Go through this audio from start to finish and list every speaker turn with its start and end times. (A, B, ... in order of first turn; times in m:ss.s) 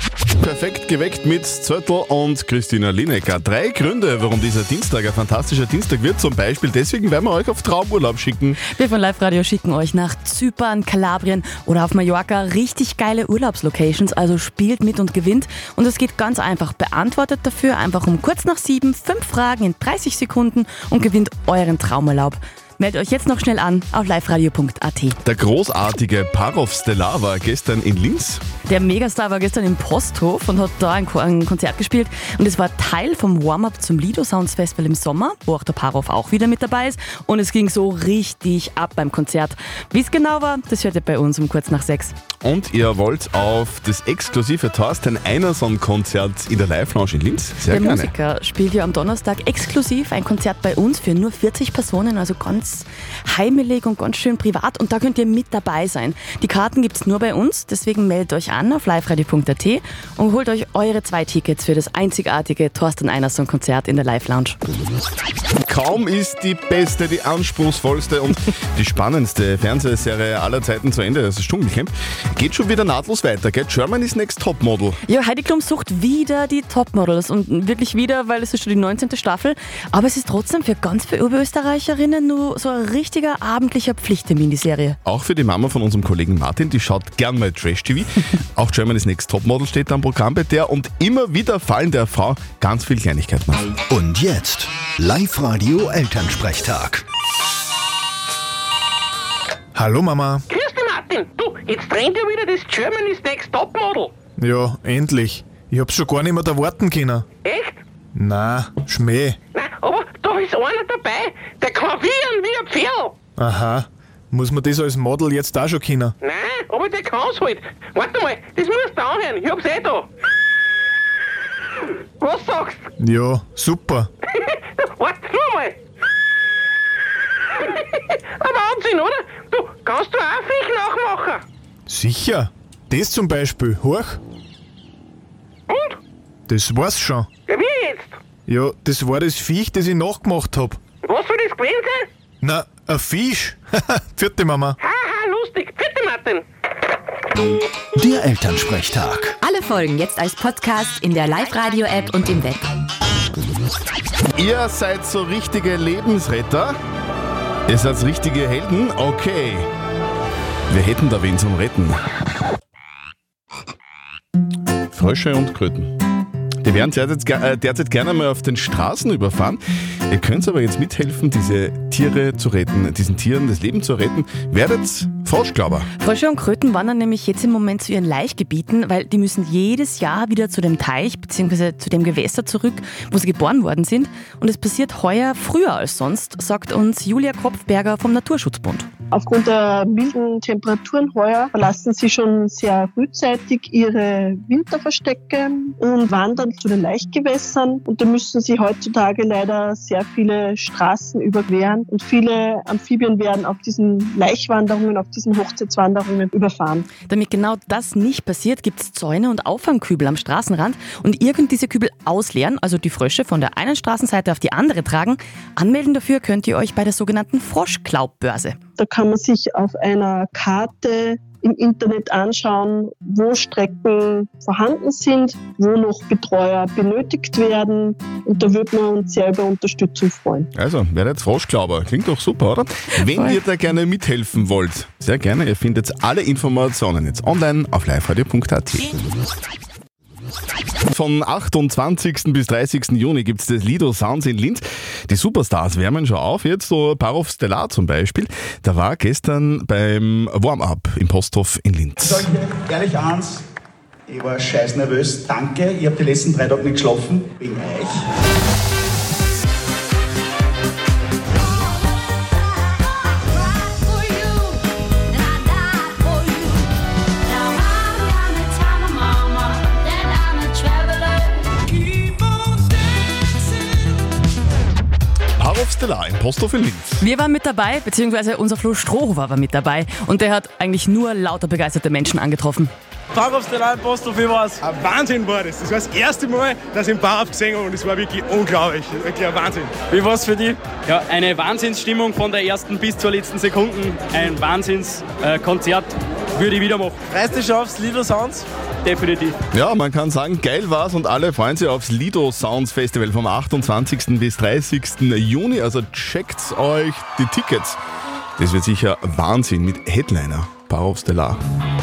0:00.4-0:08.6 A
0:08.7-0:25.2 B
0:25.2-0:28.4 A
0:28.6-0:42.2 B
0:42.4-0:48.1 A
0:47.7-1:04.6 B
1:05.6-1:15.0 A
1:15.0-1:25.0 B
1:25.0-1:33.8 A
1:33.9-1:37.0 C
1:39.8-1:40.4 D
1:40.5-1:44.1 E
1:44.4-1:47.2 D
1:47.4-1:47.8 E
1:48.1-1:49.4 D
1:49.5-1:53.1 E
1:53.4-1:56.1 D
1:56.2-2:00.1 E
2:02.2-2:02.9 E
2:03.0-2:04.1 D
2:04.3-2:05.8 E
2:07.5-2:11.4 E
2:11.9-2:14.2 D
2:15.7-2:16.0 E
2:16.5-2:17.3 D
2:17.5-2:18.2 E
2:18.5-2:20.8 D
2:21.0-2:22.1 E
2:22.4-2:24.8 D
2:24.8-2:26.4 E
2:28.0-2:29.4 C
2:29.4-2:32.7 F
2:34.4-2:36.8 A
2:37.7-2:39.7 A
2:40.7-2:42.0 A
2:44.9-2:45.9 A
2:46.6-2:55.9 A
2:56.0-3:08.9 B
3:09.1-3:26.9 G
3:27.1-3:38.6 B
3:38.8-3:50.5 G
3:50.5-3:58.9 A
4:00.9-4:12.3 A
4:12.0-4:13.4 H
4:14.1-4:18.0 H
4:23.2-4:24.6 F
4:25.1-4:26.5 F
4:27.3-4:32.4 F
4:35.4-4:37.0 A
4:37.0-4:42.7 B
4:43.1-4:59.4 I
4:59.5-5:07.8 A
5:08.4-5:11.4 A